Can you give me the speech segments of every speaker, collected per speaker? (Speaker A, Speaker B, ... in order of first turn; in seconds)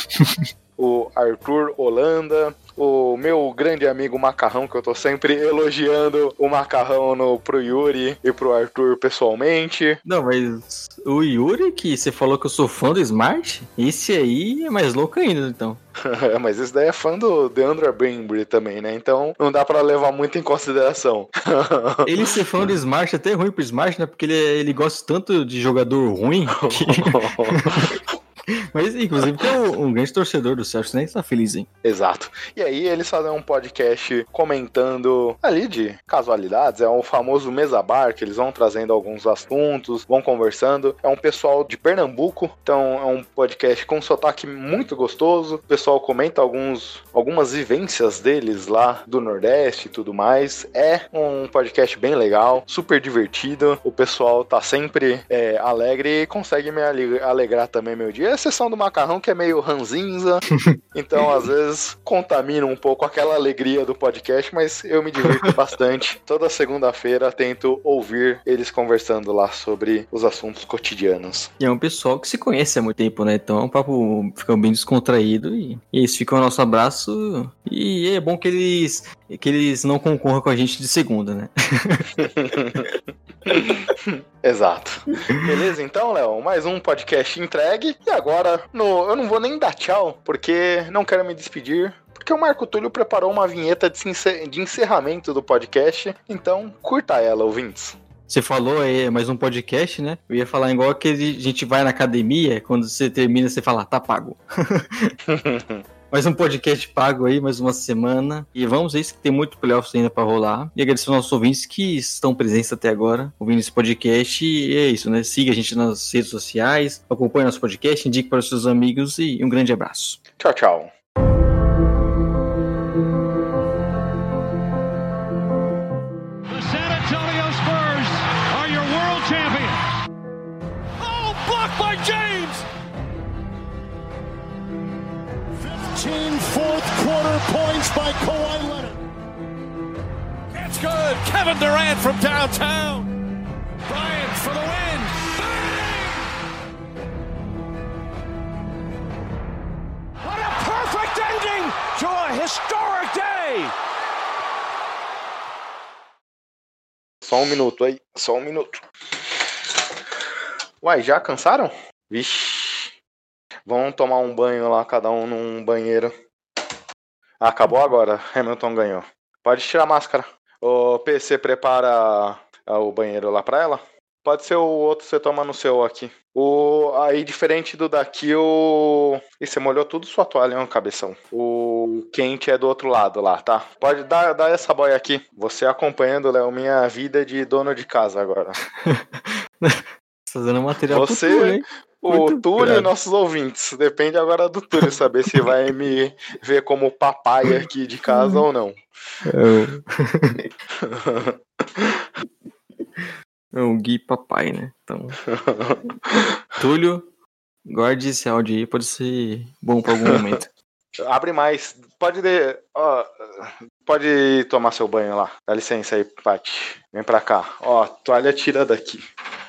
Speaker A: 0.8-10.0, 16.0-22.3, 26.6-28.0, 31.8-71.5, 82.2-98.0, 105.3-105.8, 120.4-120.9, 157.2-159.5, 160.8-162.9, 163.7-166.1, 167.4-188.6, 190.9-198.8, 200.8-202.1, 205.3-206.3, 209.9-210.4, 211.0-219.0
Speaker B: 10.1-15.8, 22.1-28.0, 28.7-31.7, 65.3-65.5, 71.6-82.2, 98.3-105.2, 106.1-120.2, 188.8-192.9, 198.1-198.4, 199.2-200.5, 203.0-205.2, 206.6-207.1, 207.7-210.5
Speaker C: 126.5-129.8, 131.0-132.7, 135.6-139.0, 140.6-143.1, 143.9-146.3, 150.2-153.7